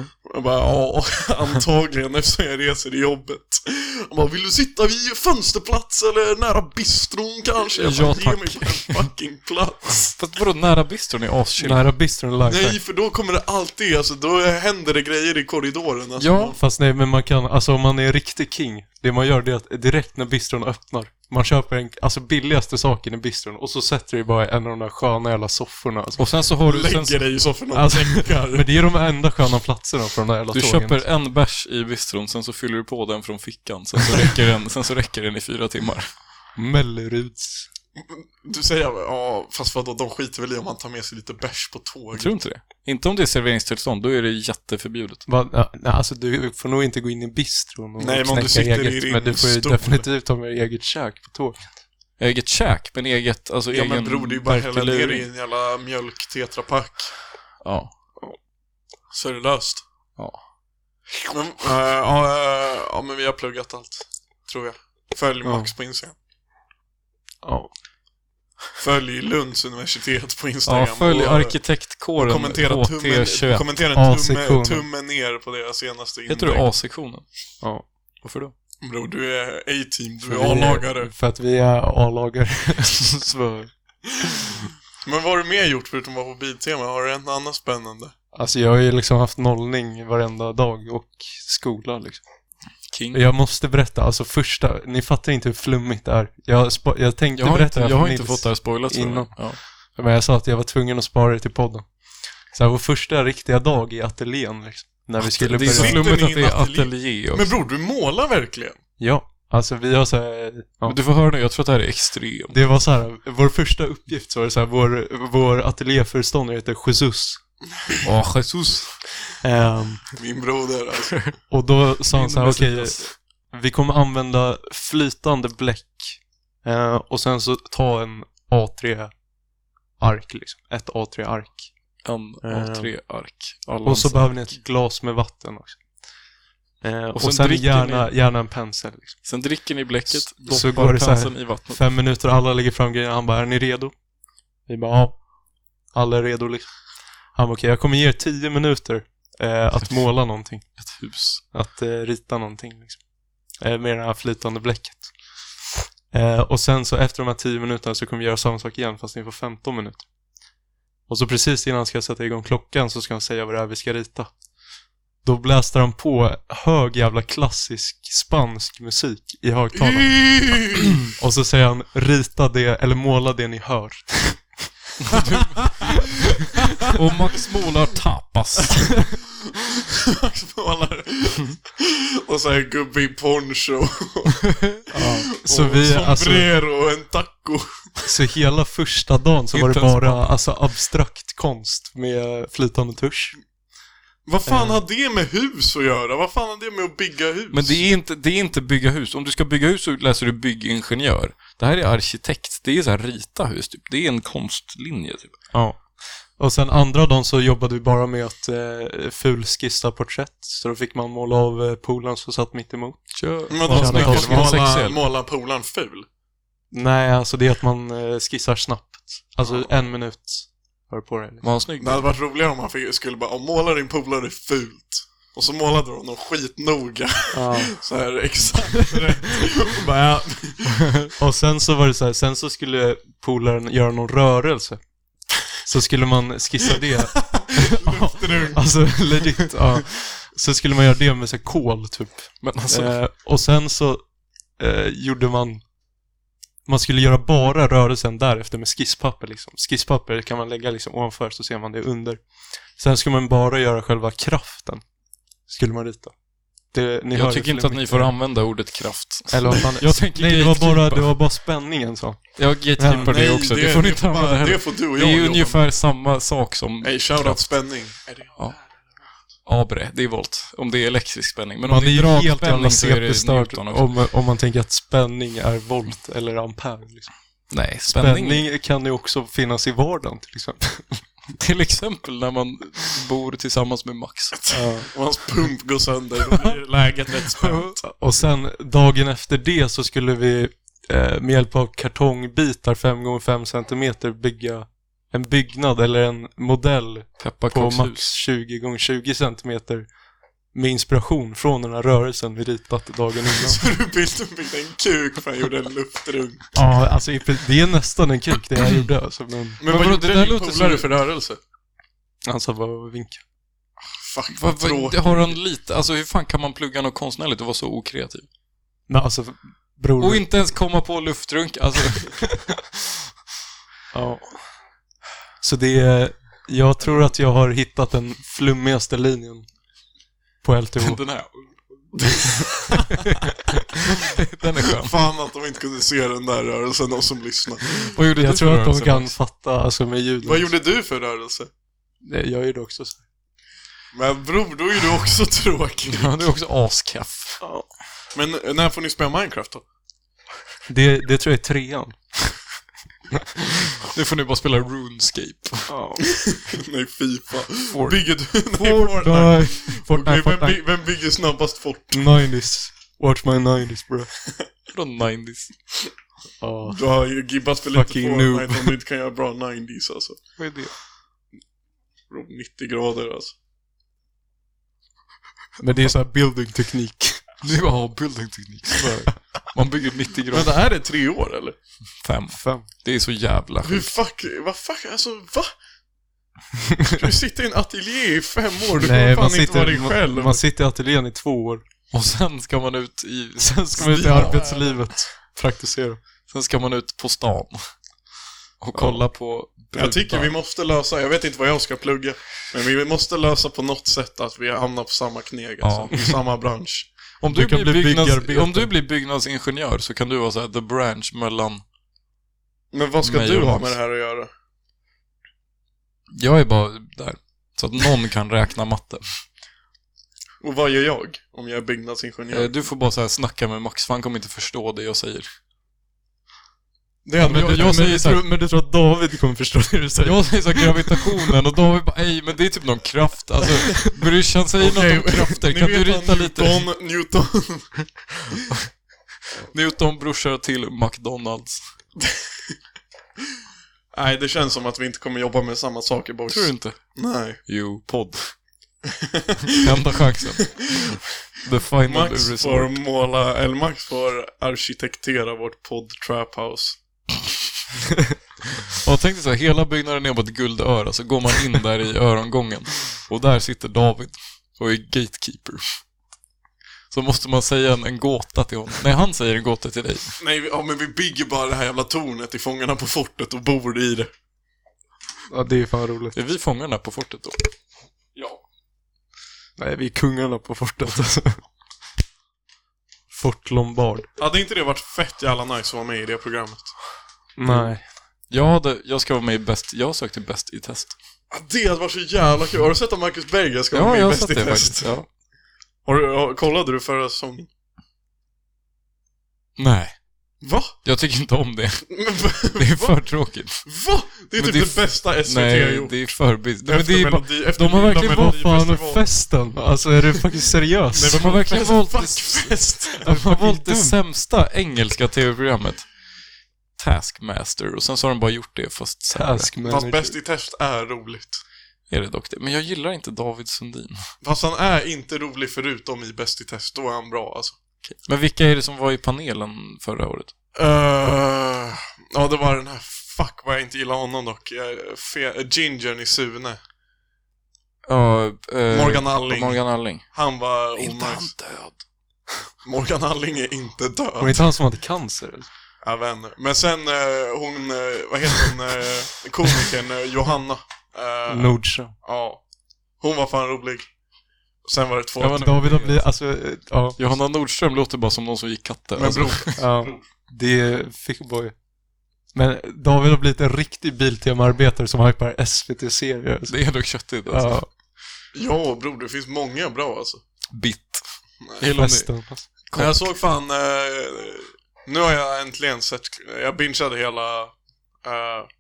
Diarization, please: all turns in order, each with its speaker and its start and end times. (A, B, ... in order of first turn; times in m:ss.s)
0:00.2-0:10.2 A
0:07.7-0:09.1 B
0:10.1-0:11.9 B
0:11.6-0:12.8 C
0:12.5-0:16.6 A
0:16.2-0:16.6 B
0:16.6-0:26.2 C
0:26.2-0:27.2 B
0:26.7-0:28.8 A
0:27.7-0:31.0 C
0:30.5-0:36.1 B
0:36.6-0:37.7 C
0:38.0-0:42.3 A
0:42.2-0:45.2 B
0:45.3-0:51.7 C
0:48.0-0:50.1 A
0:52.2-0:55.2 B
0:53.7-0:57.2 A
0:57.6-0:57.9 B
0:59.1-0:59.8 A
1:01.3-1:06.1 A
1:05.4-1:05.7 C
1:07.4-1:07.7 C
1:08.8-1:16.7 A
1:10.7-1:13.7 B
1:14.0-1:14.9 C
1:16.3-1:17.3 B
1:17.6-1:17.9 C
1:18.2-1:18.5 B
1:18.8-1:21.1 A
1:20.2-1:23.1 C
1:23.1-1:23.7 B
1:25.0-1:28.1 A
1:28.3-1:32.2 C
1:32.9-1:33.2 B
1:33.1-1:41.9 C
1:37.4-1:39.6 B
1:42.5-1:46.0 C
1:45.2-1:47.5 B
1:45.6-1:48.8 A
1:49.0-1:51.0 C
1:50.8-1:52.6 B
1:52.5-1:57.4 C
1:58.0-1:59.0 B
1:59.4-2:00.1 C
2:00.1-2:01.3 A
2:01.5-2:09.1 C
2:02.1-2:03.1 B
2:10.0-2:11.7 C
2:12.0-2:14.5 B
2:12.4-2:12.9 C
2:13.8-2:15.8 C
2:16.8-2:19.2 C
2:17.2-2:18.1 B
2:19.2-2:21.9 B
2:20.4-2:23.9 C
2:24.7-2:25.3 C
2:25.9-2:30.9 C
2:30.8-2:31.4 B
2:31.4-2:33.0 C
2:33.6-2:35.2 C
2:36.1-2:40.0 C
2:41.1-2:44.3 C
2:45.2-2:50.5 C
2:49.8-2:51.0 A
2:51.1-2:54.5 C
2:55.1-2:56.1 B
2:56.8-2:59.1 B
2:59.8-3:08.0 A
3:04.9-3:06.5 C
3:08.0-3:13.4 C
3:09.5-3:10.3 B
3:14.3-3:17.8 A
3:14.4-3:14.8 C
3:17.5-3:25.4 B
3:25.5-3:34.6 C
3:33.1-3:35.0 B
3:33.5-3:36.1 A
3:36.7-3:41.5 C
3:39.4-3:39.8 A
3:41.4-3:42.1 B
3:41.8-3:50.9 A
3:47.3-3:47.8 C
3:51.2-3:54.8 C
3:55.6-4:04.0 C
3:57.2-3:58.7 A
4:02.4-4:03.0 B
4:04.6-4:05.6 C
4:06.7-4:12.2 C
4:12.8-4:14.8 C
4:15.5-4:16.1 C
4:16.7-4:18.2 C
4:17.1-4:21.2 B
4:19.3-4:23.3 C
4:22.4-4:27.8 B
4:23.0-4:25.6 A
4:26.8-4:28.8 A
4:29.4-4:33.9 B
4:31.6-4:41.1 C
4:37.5-4:38.5 B
4:41.4-4:44.4 B
4:44.3-4:47.8 A
4:44.5-4:44.9 C
4:47.4-4:47.7 B
4:47.8-4:59.9 C
4:57.2-4:58.1 B
5:00.5-5:03.6 C
5:03.3-5:06.5 A
5:06.5-5:09.6 C
5:09.6-5:11.4 A
5:09.6-5:10.9 B
5:12.2-5:13.2 C
5:14.0-5:15.4 A
5:14.3-5:18.3 B
5:18.9-5:20.3 C
5:20.0-5:22.4 B
5:23.9-5:24.4 C
5:25.4-5:29.5 C
5:30.4-5:31.0 C
5:30.8-5:31.7 B
5:32.0-5:32.8 A
5:33.1-5:35.0 B
5:34.7-5:37.9 A
5:37.9-5:39.2 B
5:38.2-5:40.5 C
5:40.2-5:41.5 A
5:42.0-5:43.0 C
5:43.9-5:46.1 A
5:45.9-5:47.4 B
5:47.4-5:47.7 C
5:48.1-5:49.6 A
5:50.7-5:52.4 C
5:53.8-5:55.7 B
5:55.7-5:56.2 C
5:56.1-6:02.2 A
5:57.7-5:59.9 B
5:59.6-6:00.6 C
6:01.9-6:04.1 C
6:04.7-6:05.5 B
6:06.4-6:06.8 C
6:06.7-6:10.2 A
6:07.7-6:08.7 C
6:10.4-6:10.7 C
6:12.1-6:13.3 A
6:15.6-6:17.2 C
6:17.4-6:20.5 B
6:18.8-6:19.1 C
6:20.3-6:21.6 A
6:22.0-6:23.9 B
6:22.3-6:22.7 C
6:23.6-6:25.5 A
6:27.0-6:30.4 A
6:28.8-6:31.6 C
6:31.9-6:34.4 B
6:33.4-6:36.0 C
6:33.8-6:35.0 A
6:36.3-6:37.6 B
6:38.6-6:40.3 B
6:38.8-6:39.0 C
6:39.7-6:46.9 A
6:45.6-6:46.0 B
6:47.2-6:51.6 B
6:47.3-6:48.8 C
6:52.7-6:54.3 A
6:53.0-6:53.8 B
6:56.1-6:59.0 B
7:00.4-7:02.6 A
7:02.3-7:05.3 B
7:07.1-7:07.9 A
7:07.2-7:11.1 C
7:07.2-7:08.2 B
7:10.0-7:16.7 B
7:14.6-7:17.9 A
7:19.5-7:21.7 B
7:23.9-7:27.4 A
7:26.3-7:28.4 B
7:29.0-7:29.8 A
7:29.5-7:32.7 B
7:30.4-7:31.0 A
7:31.9-7:36.8 A
7:38.8-7:45.6 B
7:46.9-7:50.2 B
7:50.2-7:54.1 A
7:55.3-7:56.2 C
7:56.1-7:57.5 B
7:58.2-7:58.4 A
7:59.6-8:01.4 C
8:03.1-8:04.1 C
8:04.2-8:06.7 A
8:07.4-8:07.8 C
8:07.5-8:07.7 B
8:08.3-8:11.0 B
8:11.3-8:15.0 A
8:13.7-8:15.1 B
8:15.9-8:17.5 A
8:19.6-8:20.0 B
8:20.4-8:20.8 A
8:20.8-8:23.7 B
8:21.9-8:29.1 A
8:24.4-8:28.7 B
8:28.0-8:31.3 C
8:30.9-8:33.0 A
8:31.0-8:35.9 B
8:33.0-8:34.0 C
8:36.8-8:39.5 B
8:39.1-8:40.2 C
8:39.6-8:41.4 A
8:41.9-8:44.1 B
8:44.2-8:47.6 A
8:47.8-8:50.3 B
8:50.6-8:56.6 A
8:57.9-9:00.1 B
8:58.7-9:01.3 A
9:00.8-9:01.8 B
9:02.6-9:04.4 A
9:04.2-9:05.5 C
9:05.8-9:12.4 A
9:11.3-9:12.0 C
9:13.0-9:13.9 A
9:14.6-9:15.5 A
9:15.2-9:16.1 B
9:15.2-9:17.0 C
9:17.0-9:19.6 B
9:19.0-9:20.0 A
9:19.6-9:21.6 C
9:22.3-9:27.7 C
9:26.5-9:27.6 B
9:28.4-9:30.2 A
9:30.5-9:31.0 B
9:31.6-9:33.1 B
9:31.7-9:32.5 C
9:32.7-9:38.5 A